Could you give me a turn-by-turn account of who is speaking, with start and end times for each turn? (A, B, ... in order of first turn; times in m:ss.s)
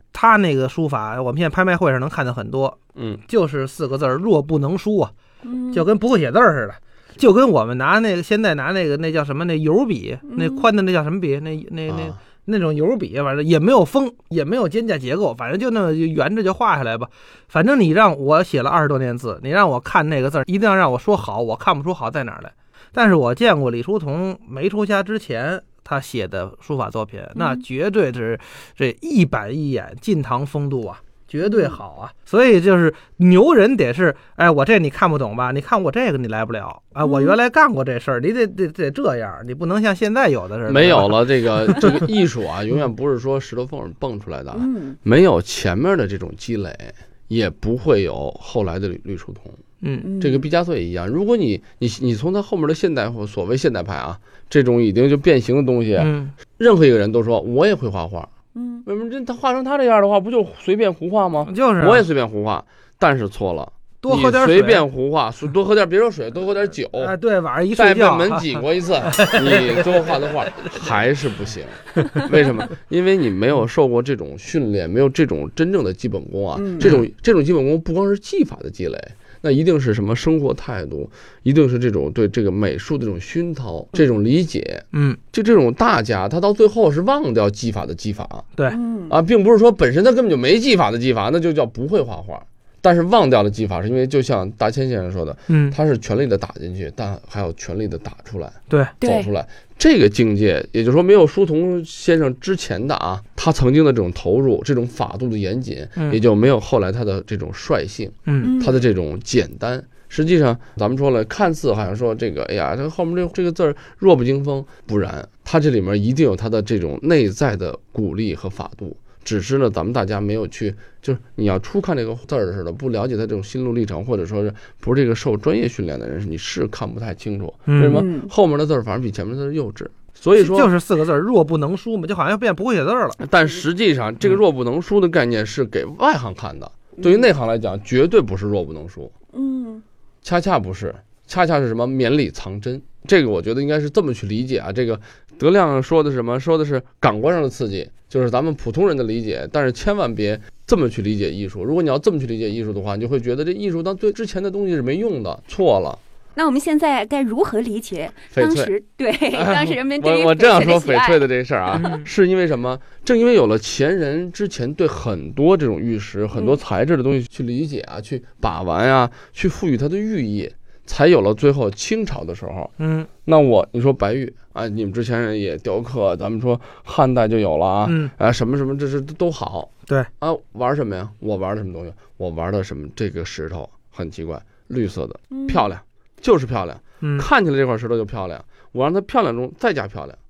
0:00.1-0:05.1 A
0:05.4-0:05.8 B
0:05.7-0:42.1 A
0:10.3-0:10.7 B
0:11.9-0:12.2 C
0:27.4-0:27.6 B
0:31.4-0:31.8 B
0:37.0-0:37.4 B
0:40.7-0:49.6 C
0:44.5-0:45.0 B
0:49.8-0:50.1 A
0:50.0-0:50.4 B
0:50.2-0:58.3 C
0:56.0-0:56.3 A
0:58.5-0:58.8 B
0:58.8-1:07.2 C
1:01.4-1:02.0 A
1:04.0-1:04.8 A
1:07.0-1:10.3 A
1:07.8-1:28.5 C
1:16.5-1:17.0 B
1:24.9-1:25.2 A
1:28.7-1:29.2 B
1:29.1-2:10.7 C
1:35.5-1:35.8 A
1:39.0-1:39.3 B
1:48.2-1:48.5 A
1:48.4-1:48.8 B
2:07.7-2:08.0 A
2:07.9-2:08.3 B
2:10.3-2:13.2 A
2:13.2-2:19.1 C
2:17.0-2:17.2 B
2:19.3-2:19.8 B
2:20.2-2:36.0 C
2:36.3-2:42.0 B
2:38.3-2:38.7 C
2:39.3-2:52.7 C
2:46.3-2:46.6 B
2:52.8-2:53.1 A
2:53.2-3:10.2 C
2:57.8-2:58.1 A
3:05.3-3:05.7 B
3:07.0-3:07.2 A